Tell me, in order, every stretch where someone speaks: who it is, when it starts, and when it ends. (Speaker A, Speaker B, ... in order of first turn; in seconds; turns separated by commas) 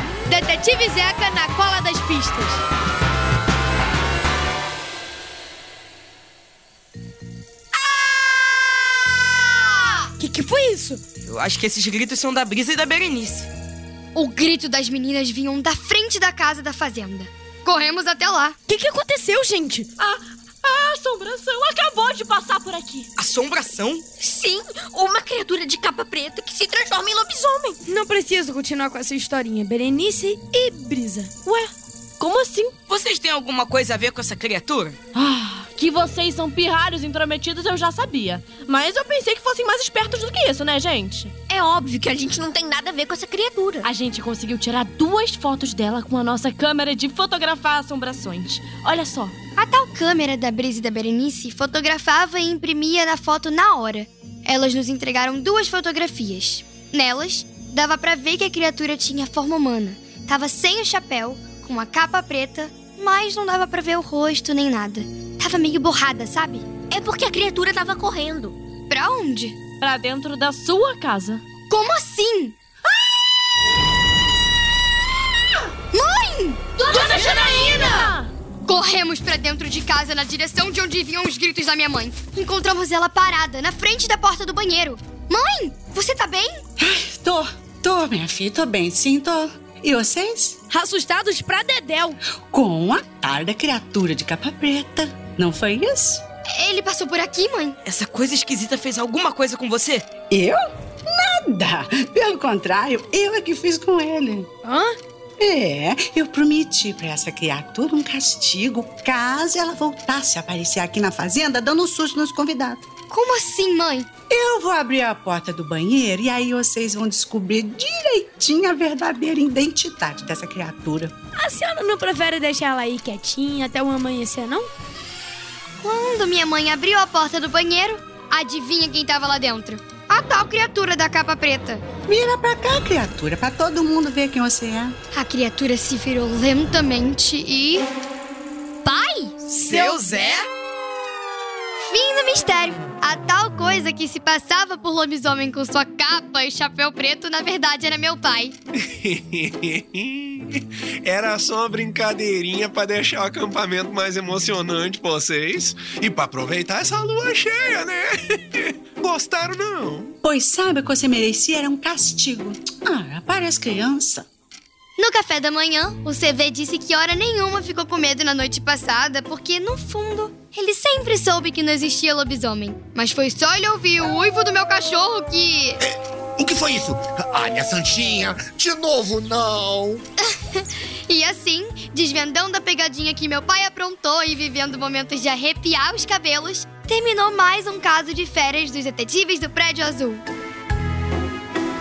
Speaker A: 0.3-2.6, Speaker A: 10.2-11.0, Speaker B: 11.2-13.5, Speaker C: 14.1-18.6, Speaker A: 18.7-19.9, Speaker D: 20.0-23.1, Speaker B: 23.2-24.0, Speaker E: 24.2-27.8, Speaker A: 27.8-31.4, Speaker D: 31.4-32.7, Speaker B: 32.9-35.0, Speaker D: 35.1-41.3, Speaker E: 41.5-43.9, Speaker D: 43.8-49.3, Speaker C: 49.6-66.7, Speaker E: 66.9-68.5, Speaker C: 68.9-69.6, Speaker D: 69.8-71.4, Speaker C: 71.7-72.5, Speaker C: 75.9-76.6, Speaker D: 76.8-78.3, Speaker B: 76.9-78.1, Speaker C: 78.7-86.6, Speaker F: 86.8-90.6, Speaker A: 90.7-92.2, Speaker F: 92.5-96.2, Speaker C: 96.5-97.8, Speaker B: 97.8-100.0, Speaker F: 100.3-104.5, Speaker A: 104.6-105.0, Speaker F: 105.4-112.8, Speaker C: 113.1-114.1, Speaker F: 114.3-121.1, Speaker A: 121.4-124.7, Speaker C: 125.8-131.8, Speaker F: 132.1-134.9, Speaker C: 135.1-137.8, Speaker C: 138.8-140.1, Speaker B: 139.6-140.5, Speaker C: 141.8-148.5, Speaker G: 149.0-160.1, Speaker F: 160.2-164.3, Speaker C: 165.0-175.8, Speaker H: 175.8-180.0, Speaker C: 180.2-190.2